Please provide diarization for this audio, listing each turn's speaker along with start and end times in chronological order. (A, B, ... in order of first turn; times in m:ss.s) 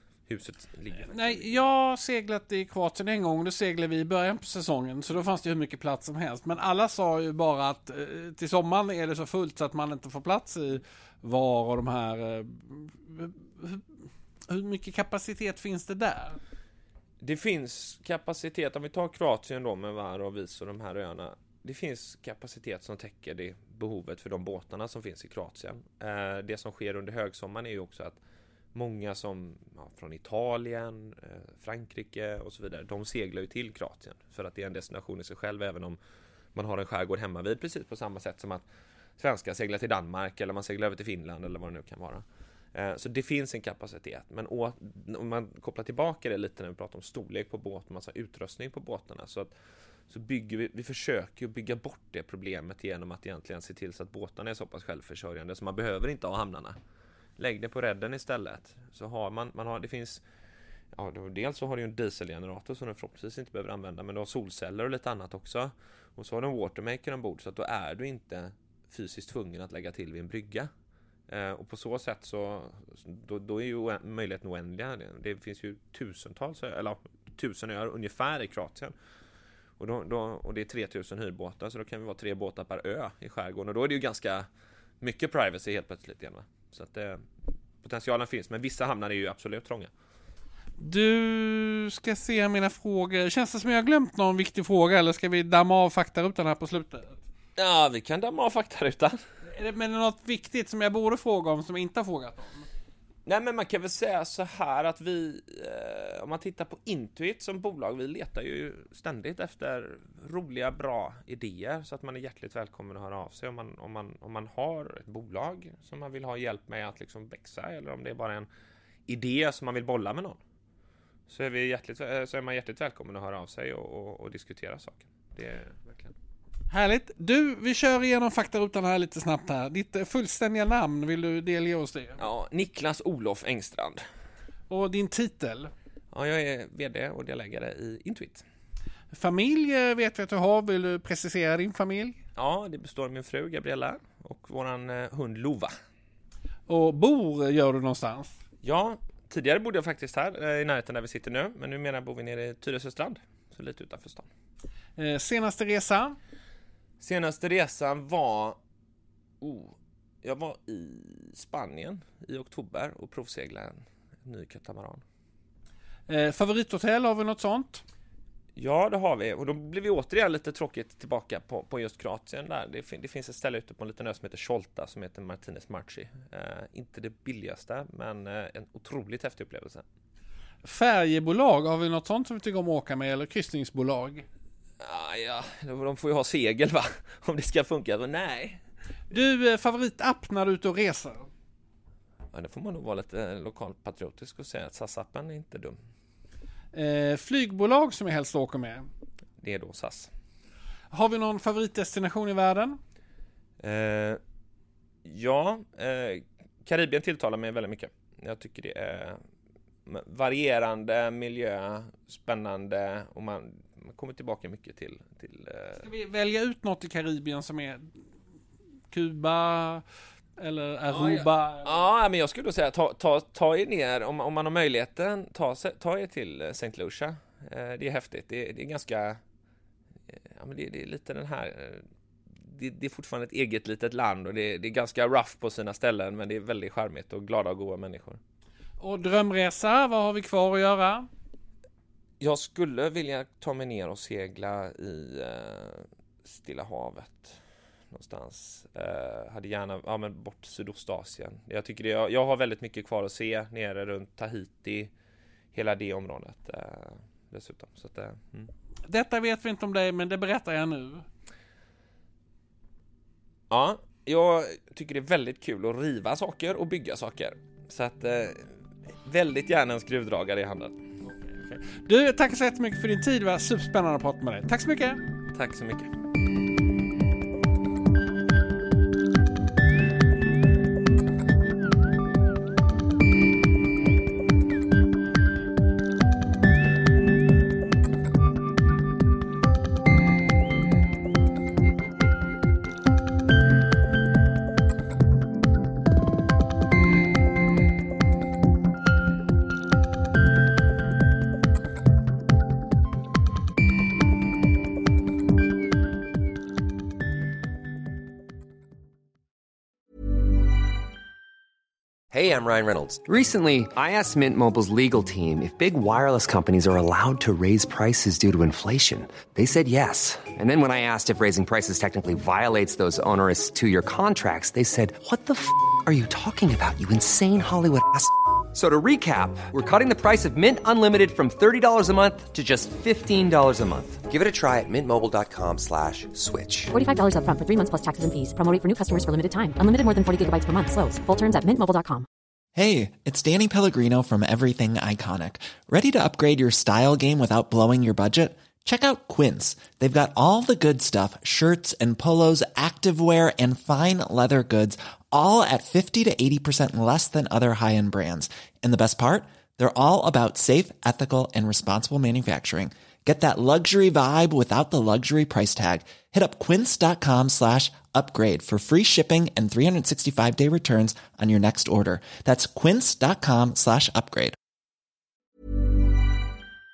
0:00.3-0:01.6 A
0:01.1-0:16.4 B
0:17.2-0:28.2 A
0:28.7-0:36.0 A
0:36.6-0:38.7 A
0:39.2-0:49.5 A
0:50.1-0:56.8 A
0:57.4-1:00.2 A
1:00.9-1:10.7 A
1:11.3-1:18.9 A
1:19.8-1:24.5 A
1:25.0-1:27.3 A
1:27.8-1:29.9 A
1:30.8-1:37.2 B
1:37.6-1:39.2 A
1:39.4-1:42.7 B
1:43.3-1:58.5 A
1:59.1-2:00.4 A
2:01.3-2:06.1 A
2:06.7-2:12.2 B
2:12.2-2:14.0 A
2:14.7-2:15.7 B
2:16.1-2:18.4 A
2:19.1-2:22.2 B
2:22.4-2:25.7 A
2:26.7-2:28.4 B
2:28.6-2:34.3 A
2:35.0-2:36.2 B
2:37.0-2:38.6 A
2:39.4-2:45.0 A
2:46.1-2:47.8 B
2:48.6-2:59.8 A
3:00.6-3:04.2 B
3:04.8-3:08.6 A
3:09.1-3:11.3 B
3:12.3-3:15.8 A
3:16.7-3:18.9 B
3:19.4-3:20.1 A
3:20.9-3:22.8 B
3:23.6-3:24.2 A
3:25.0-3:29.2 A
3:29.9-3:35.8 A
3:35.8-3:38.0 B
3:38.9-3:39.8 B
3:40.4-3:41.8 B
3:40.9-3:49.2 A
3:50.3-3:51.9 A
3:52.4-3:58.2 A
3:58.8-4:01.1 B
4:02.2-4:07.4 A
4:07.9-4:14.9 A
4:15.5-4:18.5 A
4:18.8-4:21.1 B
4:23.5-4:30.8 A
4:31.2-4:35.0 B
4:35.3-4:35.9 A
5:12.1-5:36.7 C
5:36.7-5:42.1 D
5:42.6-6:14.4 E